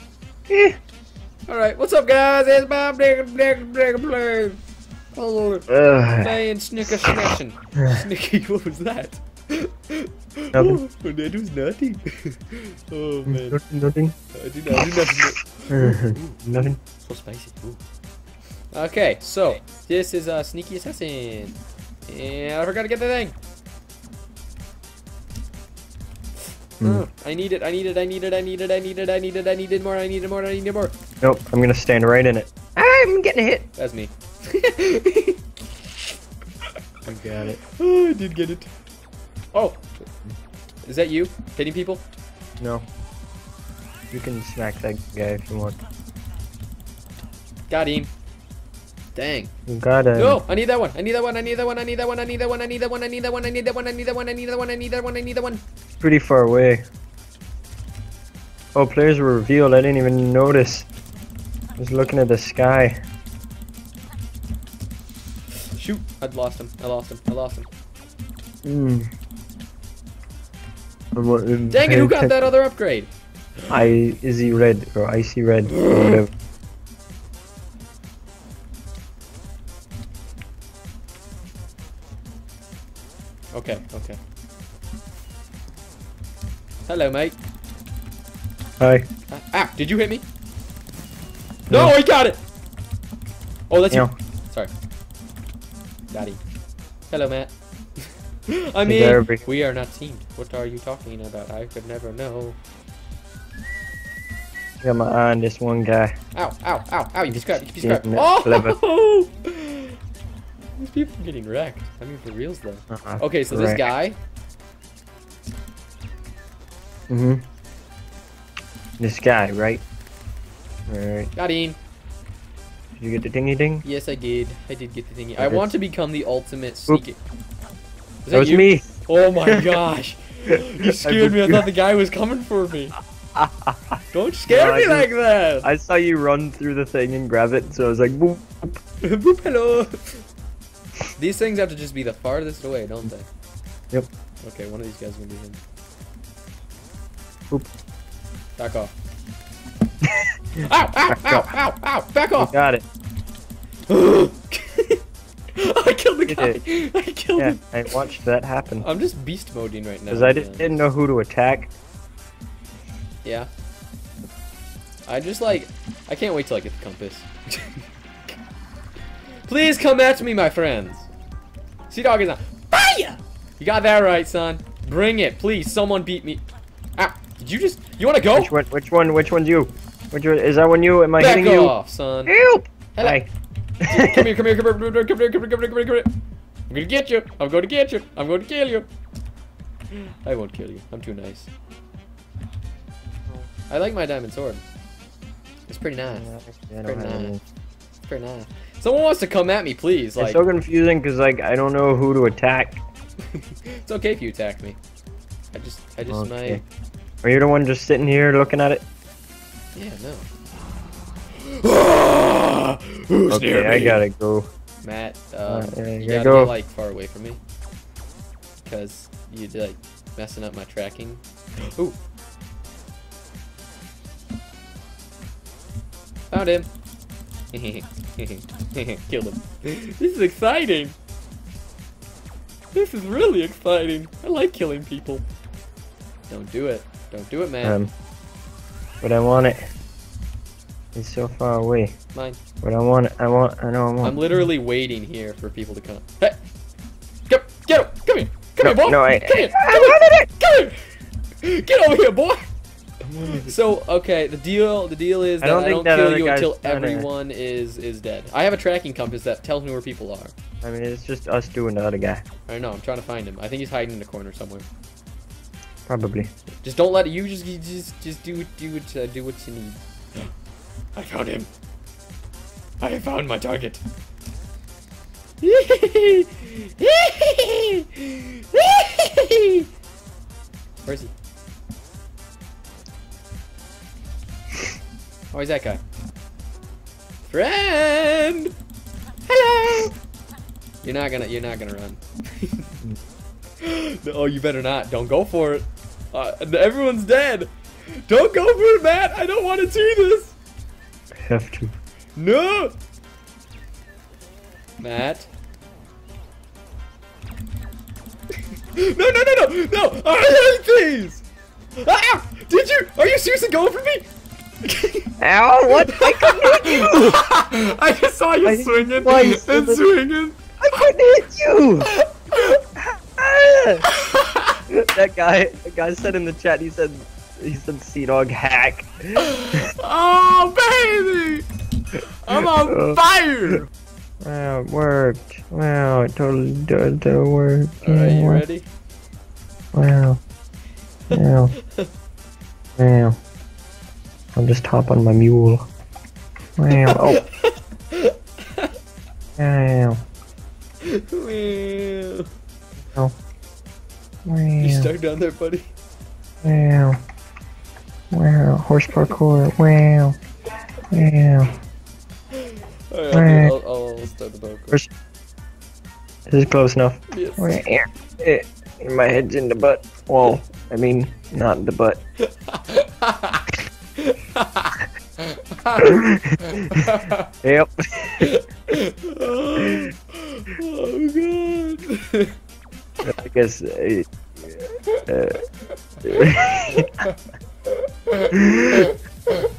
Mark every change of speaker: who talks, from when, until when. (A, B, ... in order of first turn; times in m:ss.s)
0:00.5-0:00.8 A
0:01.5-0:04.6 B
0:05.1-0:13.6 B
0:05.7-0:06.3 A
0:10.5-0:10.8 A
0:13.3-0:14.2 A
0:14.3-0:17.8 B
0:14.7-0:16.8 A
0:18.7-0:23.4 B
0:26.8-0:31.0 B
0:31.2-0:33.7 A
0:33.8-0:36.1 B
0:37.1-0:37.6 A
0:37.8-0:38.7 B
0:39.5-0:39.8 B
0:40.9-0:42.0 B
0:42.6-0:42.9 A
0:44.1-0:45.8 A
0:47.7-0:48.1 B
0:49.2-0:49.5 B
0:49.7-0:50.4 A
0:50.2-0:55.6 B
0:56.0-0:56.8 A
0:58.8-1:00.9 A
1:01.8-1:03.0 A
1:05.7-1:07.7 B
1:08.6-1:09.1 A
1:11.2-1:12.4 A
1:11.7-1:13.1 B
1:13.7-1:16.3 A
1:15.7-1:16.2 B
1:23.5-1:24.2 B
1:26.9-1:27.4 B
1:28.8-1:29.1 A
1:29.3-1:30.2 B
1:31.7-1:32.0 A
1:31.7-1:32.4 B
1:33.7-1:34.7 B
1:36.1-1:36.4 B
1:37.1-1:37.5 B
1:38.5-1:42.6 B
1:38.8-1:39.5 A
1:44.8-1:46.2 A
1:46.4-1:50.0 B
1:47.3-1:48.8 A
1:50.8-1:54.2 B
1:52.9-1:53.9 A
1:57.1-1:57.4 A
1:59.0-1:59.8 A
2:00.9-2:01.3 A
2:01.4-2:01.8 B
2:03.0-2:03.8 A
2:03.8-2:07.2 B
2:05.4-2:05.7 A
2:08.2-2:13.0 B
2:08.3-2:09.7 A
2:10.5-2:11.7 A
2:13.4-2:18.8 A
2:14.1-2:15.7 B
2:19.0-2:20.2 B
2:21.2-2:23.3 B
2:24.4-2:25.6 B
2:28.6-2:28.9 B
2:30.6-2:32.5 B
2:31.1-2:31.5 A
2:32.4-2:32.8 A
2:33.9-2:35.0 B
2:35.6-2:37.7 B
2:36.3-2:36.6 A
2:37.4-2:38.9 A
2:38.8-2:40.8 B
2:40.1-2:41.7 A
2:43.2-2:43.5 B
2:45.1-2:47.9 B
2:49.5-2:51.1 B
2:51.9-2:56.4 B
2:57.0-2:58.5 B
2:58.3-3:01.7 A
3:01.2-3:02.3 B
3:02.3-3:03.3 A
3:03.0-3:03.2 B
3:03.8-3:06.1 B
3:03.8-3:04.2 A
3:06.7-3:08.9 B
3:09.9-3:11.5 B
3:13.7-3:14.6 B
3:15.7-3:16.3 B
3:16.1-3:17.4 A
3:16.8-3:17.4 B
3:18.1-3:20.4 B
3:20.2-3:22.8 A
3:23.3-3:24.8 B
3:25.5-3:26.6 B
3:26.1-3:26.6 A
3:27.2-3:28.8 A
3:29.8-3:30.3 B
3:31.4-3:34.0 B
3:33.3-3:34.5 A
3:34.8-3:37.4 B
3:35.5-3:36.5 A
3:38.6-3:42.0 B
3:46.3-3:46.7 B
3:47.5-3:51.0 B
3:52.7-3:55.2 B
3:56.3-3:57.8 B
3:57.6-3:57.9 A
3:59.0-3:59.7 A
4:01.0-4:02.0 A
4:02.1-4:02.4 B
4:02.6-4:04.2 A
4:04.0-4:06.4 B
4:07.3-4:10.9 B
4:08.6-4:10.3 A
4:11.4-4:12.5 B
4:13.1-4:13.5 A
4:13.3-4:20.3 B
4:15.4-4:17.1 A
4:20.6-4:22.2 A
4:22.5-4:24.7 B
4:25.9-4:26.3 A
4:26.6-4:30.3 B
4:31.0-4:31.5 B
4:32.8-4:33.8 B
4:35.4-4:39.7 B
4:40.8-4:41.1 B
4:45.3-4:45.8 B
4:47.2-4:48.5 B
4:49.3-4:50.0 B
4:50.8-4:52.7 B
4:53.6-4:57.5 B
4:58.1-5:00.3 B
5:01.2-5:01.7 A
5:02.2-5:02.7 B
5:04.8-5:05.3 B
5:08.8-5:11.2 B
5:11.8-5:14.1 B
5:14.6-5:15.1 B
5:15.2-5:17.2 A
5:15.7-5:21.0 B
5:18.4-5:19.8 A
5:20.6-5:21.9 A
5:21.9-5:22.6 B
5:23.2-5:23.9 A
5:23.9-5:24.6 B
5:24.7-5:29.7 A
5:29.2-5:33.7 B
5:32.4-5:33.0 A
5:34.2-5:38.5 A
5:37.8-5:38.7 B
5:39.7-5:40.2 A
5:41.1-5:41.6 A
5:42.8-5:43.2 A
5:44.4-5:45.7 A
5:46.6-5:47.2 A
5:46.7-5:48.7 B
5:49.4-5:50.0 A
5:50.8-5:52.3 B
5:54.3-5:54.9 A
5:54.6-5:55.7 B
5:56.4-5:57.0 A
5:58.1-6:00.2 A
6:00.9-6:01.5 A
6:02.4-6:04.8 B
6:03.1-6:03.6 A
6:06.3-6:12.0 A
6:07.1-6:07.6 B
6:12.3-6:13.5 B
6:14.0-6:17.3 B
6:15.8-6:18.3 A
6:18.2-6:22.3 B
6:23.0-6:25.4 A
6:26.0-6:27.1 A
6:28.1-6:29.5 B
6:28.3-6:28.9 A